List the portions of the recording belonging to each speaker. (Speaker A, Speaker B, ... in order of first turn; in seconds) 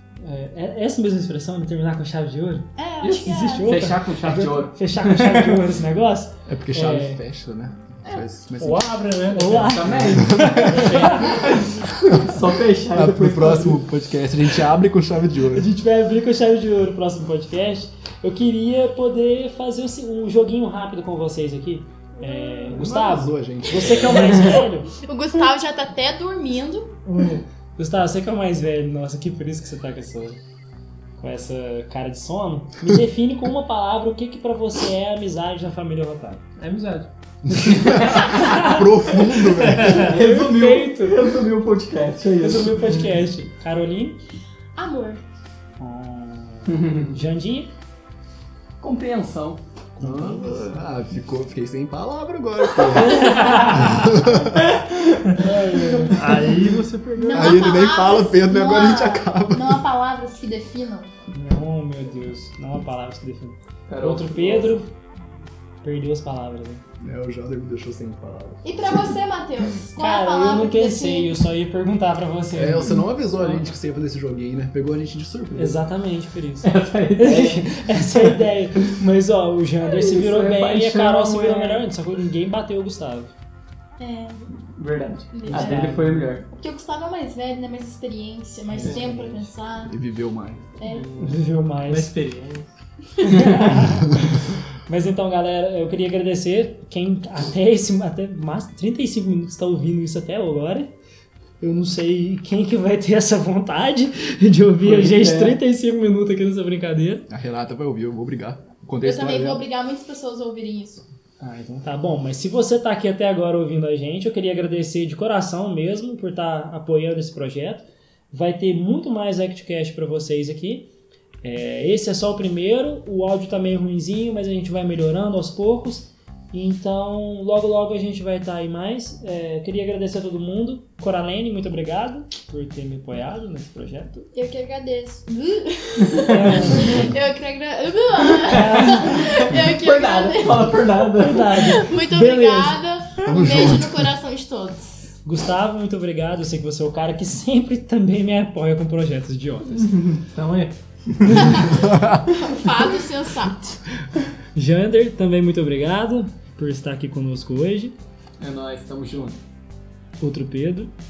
Speaker A: 0.2-7.2, 9.3-11.5, 15.5-24.9, 27.8-30.4, 31.2-36.4, 37.7-38.9, 39.7-41.3, 42.4-44.2, 45.8-47.7, 50.0-50.8, 53.0-54.3, 55.4-57.6, 61.3-64.9, 65.8-66.8, 69.9-73.5, 75.5-83.3, 85.5-86.2, 88.8-89.5, 91.2-92.1, 93.2-100.9, 101.6-107.3, 111.4-120.9, 121.4-134.3, 136.3-137.1, 138.4-139.3, 141.1-142.8, 145.2-150.0, 154.6-157.9, 160.2-160.9
Speaker B: 2.8-3.8, 22.2-22.8, 25.1-27.0, 44.8-45.2, 57.2-61.1, 68.6-71.3, 84.0-84.4, 85.3-90.0, 90.8-91.1, 109.0-111.1, 134.3-141.0, 141.5-145.1, 151.3-153.8
Speaker C: 3.0-5.6, 9.5-13.8, 37.7-38.6, 39.3-43.1, 46.7-47.2, 48.8-49.6, 53.0-53.7, 54.6-55.4, 63.9-64.8, 76.6-78.4, 79.8-81.9, 84.5-86.5, 88.8-89.1, 91.9-92.3, 104.8-105.6, 138.5-141.8, 149.8-151.7, 158.4-159.4
Speaker D: 6.5-8.9, 9.8-11.0, 11.7-12.4, 12.9-15.7, 22.8-24.4, 37.5-40.1, 50.0-54.8, 57.3-59.9, 67.0-68.6, 72.5-75.8, 89.9-90.6, 107.3-109.7, 143.2-144.1, 151.5-152.3
Speaker E: 8.6-9.9, 10.7-11.5, 27.1-27.4, 36.6-37.1, 56.0-57.4, 91.1-92.7